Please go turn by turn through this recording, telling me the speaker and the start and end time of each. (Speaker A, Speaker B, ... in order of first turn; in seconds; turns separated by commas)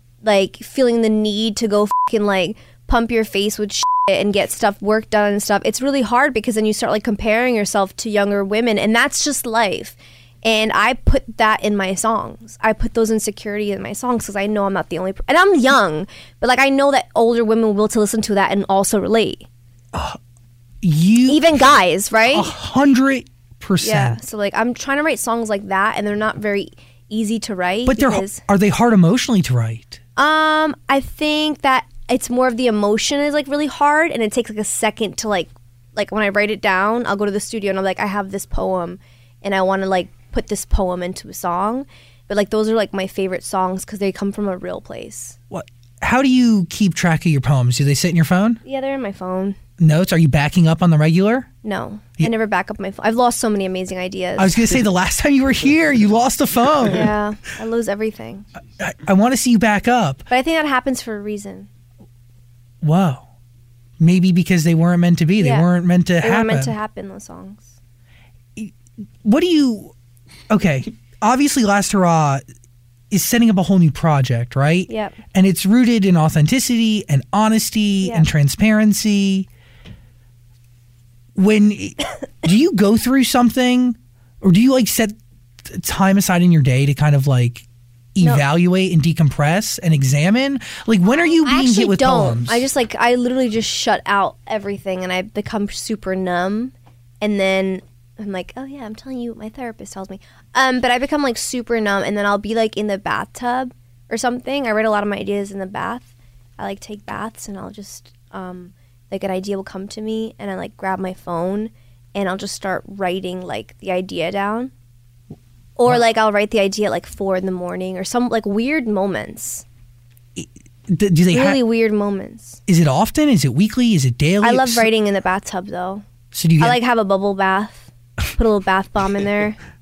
Speaker A: 0.2-19.5, Speaker B: 19.9-20.2, Speaker B: 20.8-21.5, Speaker A: 21.2-22.5, Speaker B: 22.3-24.2, Speaker A: 23.8-28.4, Speaker B: 27.9-30.0, Speaker A: 30.2-45.4, Speaker B: 45.5-48.6, Speaker A: 48.6-49.6, Speaker B: 49.8-51.5, Speaker A: 51.6-54.6, Speaker B: 54.4-57.1, Speaker A: 56.9-58.4, Speaker B: 58.8-60.2, Speaker A: 60.3-61.7, Speaker B: 62.8-63.2, Speaker B: 64.0-66.7, Speaker A: 65.4-65.7, Speaker A: 66.2-67.7, Speaker B: 68.5-69.9, Speaker B: 70.5-72.4, Speaker B: 73.1-79.5, Speaker A: 74.9-75.2, Speaker A: 78.0-78.3, Speaker B: 81.3-92.6, Speaker A: 91.2-114.7, Speaker A: 115.8-119.6, Speaker B: 120.3-121.6, Speaker A: 121.3-122.6, Speaker B: 122.7-124.9, Speaker A: 124.4-126.0, Speaker B: 126.3-126.8, Speaker A: 126.6-129.6